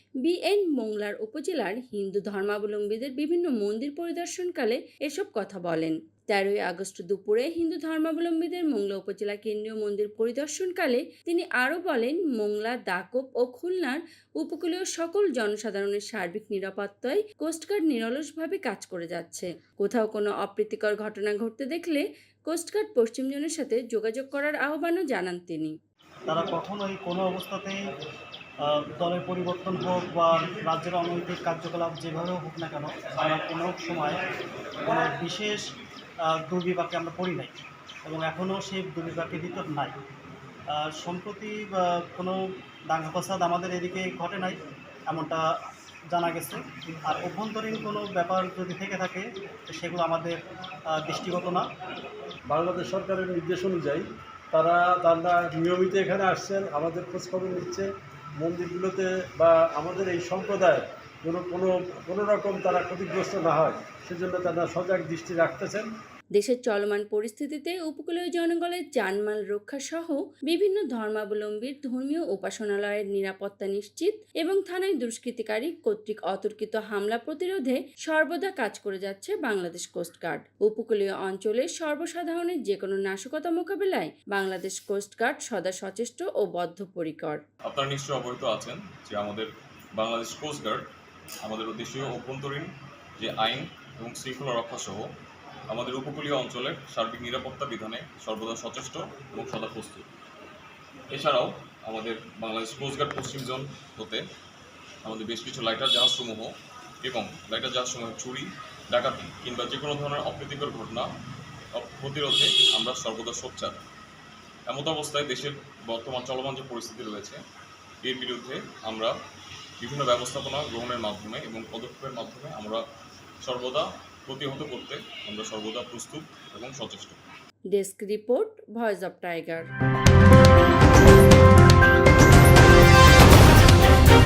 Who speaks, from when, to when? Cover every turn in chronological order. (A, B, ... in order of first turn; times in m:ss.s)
0:00.2-0:25.8 A
0:26.3-0:27.8 B
0:28.6-0:34.2 B
0:34.8-0:35.7 B
0:36.2-0:40.0 B
0:40.7-0:45.5 B
0:46.1-0:50.4 B
0:50.9-0:51.6 B
0:52.5-1:05.9 C
1:06.3-1:27.4 A
1:27.6-1:30.9 D
1:31.4-1:35.1 D
1:35.7-1:40.1 D
1:41.1-1:44.2 D
1:45.0-1:51.1 D
1:51.7-1:53.8 D
1:54.7-1:57.4 D
1:58.0-1:59.1 D
1:59.8-2:02.8 D
2:03.4-2:07.2 D
2:07.7-2:09.7 A